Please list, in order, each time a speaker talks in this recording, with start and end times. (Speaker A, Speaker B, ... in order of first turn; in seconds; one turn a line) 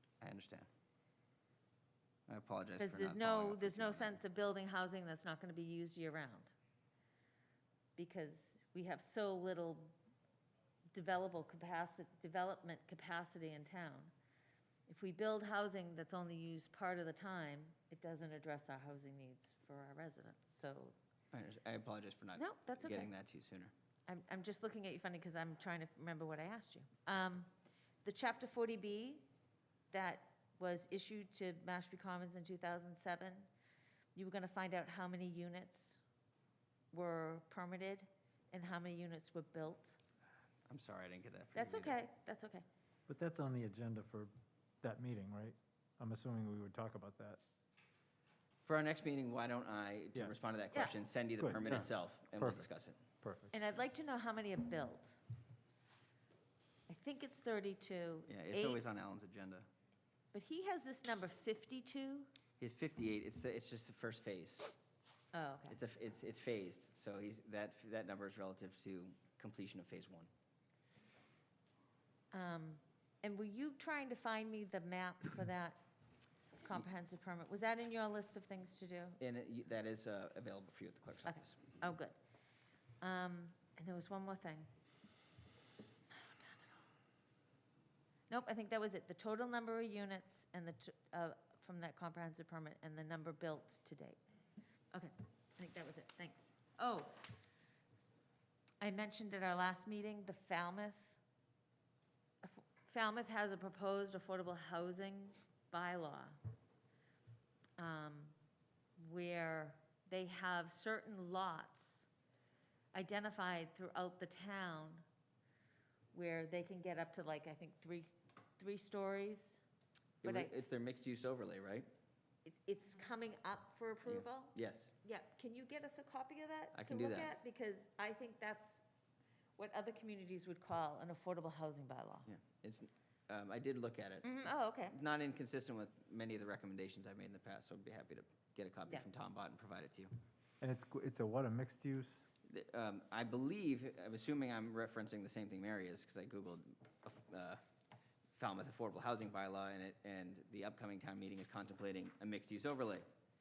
Speaker A: 0.2-0.7
Speaker A: 2.3-4.2
Speaker B: 2.8-6.5
Speaker B: 8.0-9.9
Speaker B: 10.9-14.1
Speaker B: 14.9-20.9
Speaker A: 21.3-23.7
Speaker B: 22.4-23.1
Speaker B: 24.1-27.5
Speaker B: 28.0-29.3
Speaker B: 29.9-33.5
Speaker B: 34.1-36.0
Speaker B: 36.9-40.0
Speaker A: 40.7-42.0
Speaker B: 41.5-42.6
Speaker C: 43.1-44.3
Speaker C: 44.8-47.4
Speaker A: 48.6-53.0
Speaker C: 51.4-51.7
Speaker C: 52.4-52.6
Speaker C: 53.2-53.5
Speaker B: 53.5-55.2
Speaker B: 56.9-58.8
Speaker A: 58.3-59.7
Speaker B: 60.3-62.3
Speaker A: 62.6-64.7
Speaker B: 65.3-65.8
Speaker A: 65.7-70.3
Speaker B: 72.3-75.8
Speaker B: 76.6-79.2
Speaker A: 79.2-81.6
Speaker B: 81.2-82.2
Speaker B: 83.0-84.7
Speaker B: 86.2-86.4
Speaker B: 88.3-94.2
Speaker B: 94.9-97.1
Speaker B: 98.8-101.2
Speaker B: 102.4-106.4
Speaker B: 107.8-108.3
Speaker B: 109.0-112.1
Speaker B: 112.9-115.0
Speaker B: 116.1-119.6
Speaker A: 120.2-121.9
Speaker B: 120.2-120.5
Speaker B: 122.5-128.8
Speaker A: 124.1-124.9
Speaker A: 126.7-127.3
Speaker B: 129.6-132.3
Speaker A: 132.2-140.1
Speaker B: 134.2-134.9
Speaker C: 140.6-142.2
Speaker A: 142.5-147.6
Speaker A: 148.3-153.0